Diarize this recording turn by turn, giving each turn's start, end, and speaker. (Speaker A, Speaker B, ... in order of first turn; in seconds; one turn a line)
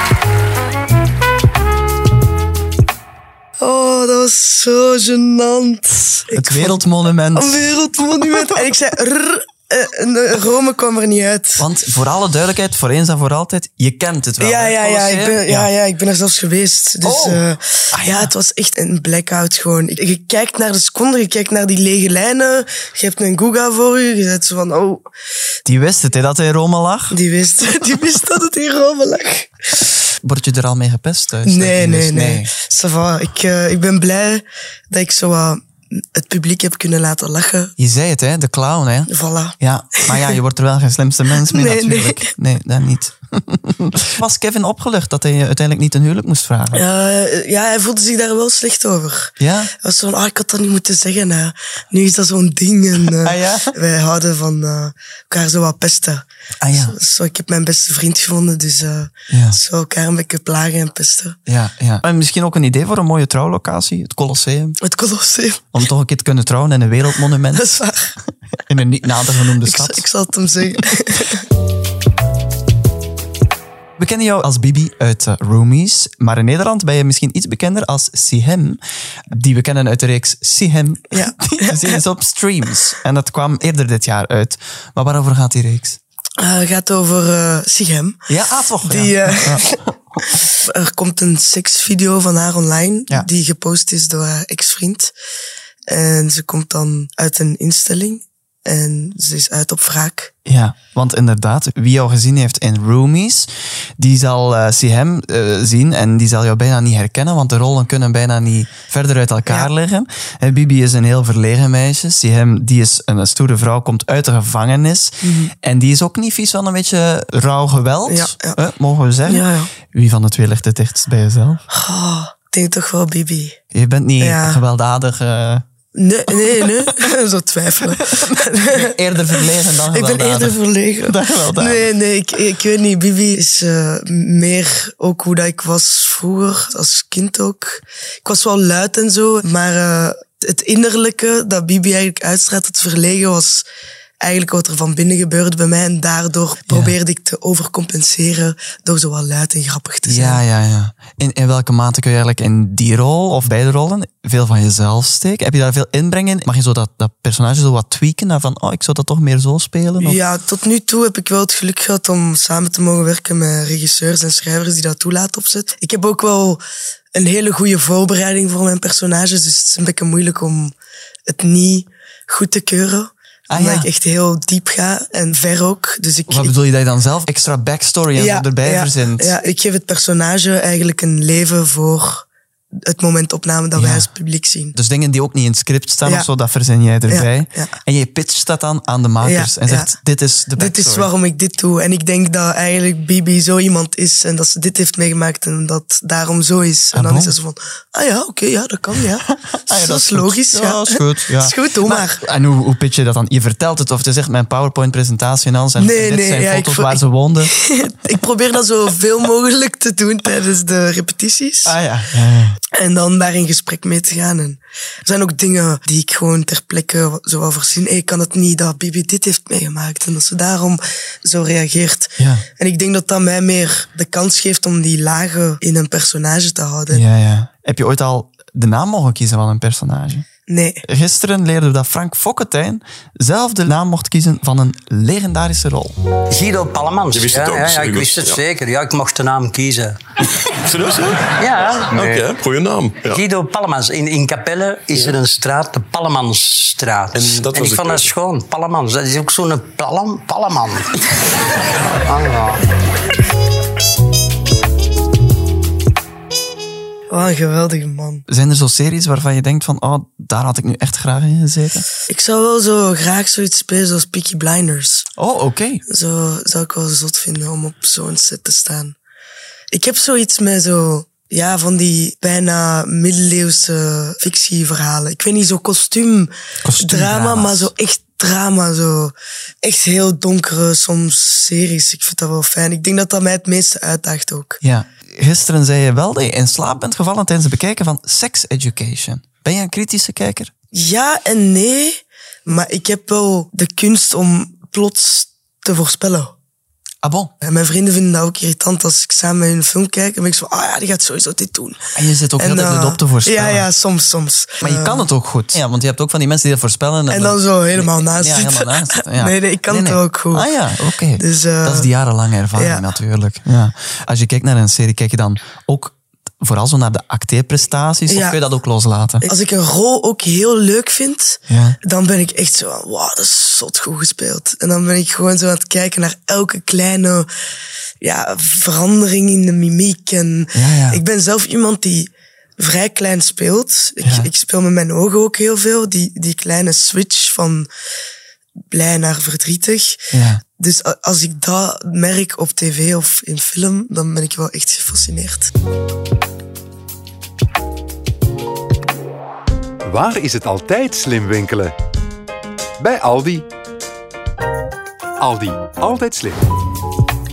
Speaker A: 3.6-6.8
Speaker B: 6.3-7.7
Speaker A: 7.3-11.7
Speaker B: 11.6-15.7
Speaker A: 14.4-25.1
Speaker B: 17.0-18.3
Speaker B: 25.7-27.2
Speaker A: 27.1-29.8
Speaker B: 30.2-32.5
Speaker A: 31.4-37.7
Speaker B: 37.8-46.8
Speaker A: 39.1-40.3
Speaker A: 41.4-42.3
Speaker A: 46.7-61.4
Speaker B: 49.4-49.7
Speaker B: 53.2-53.8
Speaker B: 56.6-57.0
Speaker B: 59.3-59.6
Speaker B: 61.5-64.8
Speaker A: 64.8-65.7
Speaker B: 65.7-67.8
Speaker A: 67.5-68.1
Speaker B: 68.7-70.0
Speaker A: 69.6-71.4
Speaker B: 74.0-86.0
Speaker A: 81.1-82.0
Speaker A: 86.4-88.2
Speaker B: 88.3-89.6
Speaker A: 88.8-95.1
Speaker A: 95.9-100.3
Speaker B: 100.5-121.6
Speaker A: 115.2-115.5
Speaker A: 118.1-118.6
Speaker A: 119.2-119.7
Speaker A: 121.7-123.6
Speaker B: 123.7-125.6
Speaker A: 124.2-124.6
Speaker A: 125.9-143.7
Speaker B: 128.2-131.9
Speaker A: 144.2-150.4
Speaker B: 146.7-146.9
Speaker B: 150.1-160.2
Speaker A: 160.0-166.6
Speaker A: 167.2-170.7
Speaker A: 171.3-176.6
Speaker B: 173.5-173.9
Speaker B: 176.3-179.3
Speaker A: 178.2-182.3
Speaker A: 182.9-184.8
Speaker B: 183.8-184.1
Speaker B: 184.8-191.1
Speaker A: 186.0-186.3
Speaker A: 187.1-187.7
Speaker A: 189.2-189.9
Speaker A: 190.6-202.2
Speaker B: 196.9-197.3
Speaker B: 199.2-207.5
Speaker A: 205.8-211.8
Speaker B: 211.7-212.6
Speaker A: 212.7-227.0
Speaker B: 222.2-222.4
Speaker B: 226.9-230.3
Speaker A: 230.5-230.8
Speaker B: 230.8-236.0
Speaker C: 236.3-240.0
Speaker D: 237.1-238.4
Speaker D: 240.7-241.3
Speaker C: 241.4-242.3
Speaker D: 241.9-243.2
Speaker C: 243.1-250.9
Speaker D: 247.1-248.1
Speaker C: 252.0-252.6
Speaker A: 257.1-258.2
Speaker B: 258.3-261.9
Speaker A: 262.1-265.1
Speaker B: 265.2-265.8
Speaker A: 265.9-269.0
Speaker A: 269.7-284.6
Speaker B: 276.6-277.7
Speaker B: 284.6-290.5
Speaker A: 290.7-296.4
Speaker B: 297.0-297.3
Speaker A: 297.4-305.1
Speaker B: 301.9-303.7
Speaker B: 304.6-319.3
Speaker A: 307.1-310.5
Speaker A: 311.2-311.9
Speaker A: 312.6-312.9
Speaker A: 318.1-318.4
Speaker A: 319.2-327.3
Speaker B: 321.5-321.8
Speaker A: 328.0-337.7
Speaker B: 330.5-331.0
Speaker B: 334.0-334.3
Speaker A: 338.7-345.5
Speaker B: 340.1-340.4
Speaker E: 349.9-351.8
Speaker E: 352.8-353.5
Speaker E: 355.2-356.4